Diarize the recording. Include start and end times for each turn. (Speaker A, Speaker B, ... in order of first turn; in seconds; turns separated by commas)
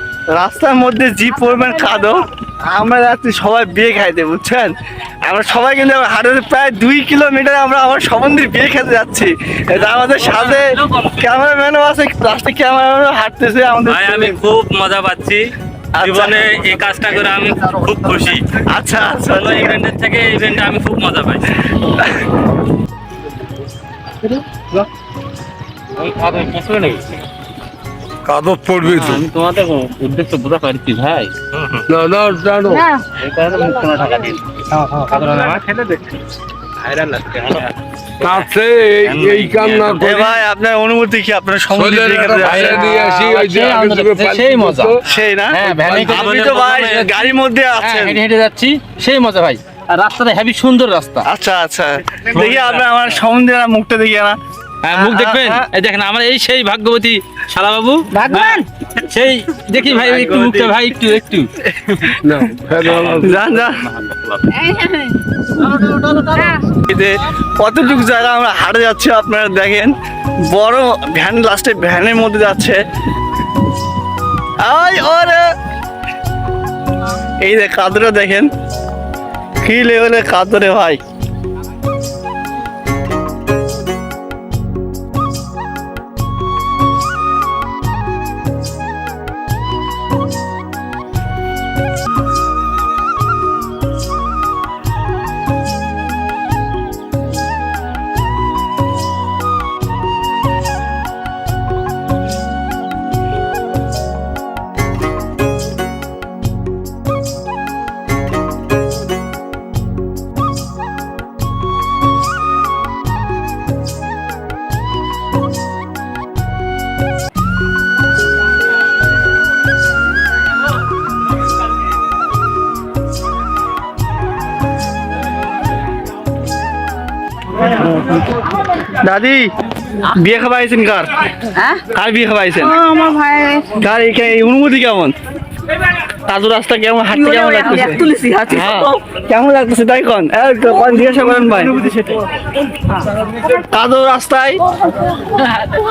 Speaker A: 0.4-14.4, Speaker B: 10.2-11.1, Speaker B: 13.9-18.5, Speaker A: 15.9-16.7, Speaker A: 18.5-19.8, Speaker B: 19.3-21.7, Speaker A: 21.9-22.3, Speaker B: 26.0-27.0, Speaker C: 28.2-29.2, Speaker B: 28.9-31.9, Speaker C: 31.9-32.9, Speaker D: 32.7-33.0, Speaker B: 33.2-34.4, Speaker B: 35.0-36.0, Speaker E: 35.0-35.7, Speaker B: 36.8-37.7, Speaker C: 38.2-40.4, Speaker B: 39.0-40.0, Speaker A: 40.0-42.9, Speaker C: 41.7-45.0, Speaker E: 42.4-45.0, Speaker A: 45.1-48.2, Speaker E: 45.5-51.3, Speaker C: 45.7-46.0, Speaker B: 46.0-47.0, Speaker A: 51.2-54.4, Speaker B: 52.3-52.9, Speaker E: 54.8-61.5, Speaker A: 54.9-55.7, Speaker D: 58.1-58.6, Speaker B: 59.9-60.9, Speaker A: 61.8-62.1, Speaker C: 62.2-63.6, Speaker A: 63.2-63.9, Speaker B: 64.0-64.5, Speaker D: 64.5-66.6, Speaker A: 66.8-70.0, Speaker A: 70.5-72.8, Speaker A: 74.6-75.5, Speaker A: 77.4-78.5, Speaker A: 79.6-81.0, Speaker A: 127.7-128.2, Speaker A: 128.9-129.5, Speaker A: 130.0-131.1, Speaker D: 131.5-131.8, Speaker A: 131.9-132.8, Speaker D: 132.6-133.7, Speaker A: 133.7-135.1, Speaker A: 136.2-142.2, Speaker D: 137.1-138.9, Speaker A: 143.6-144.6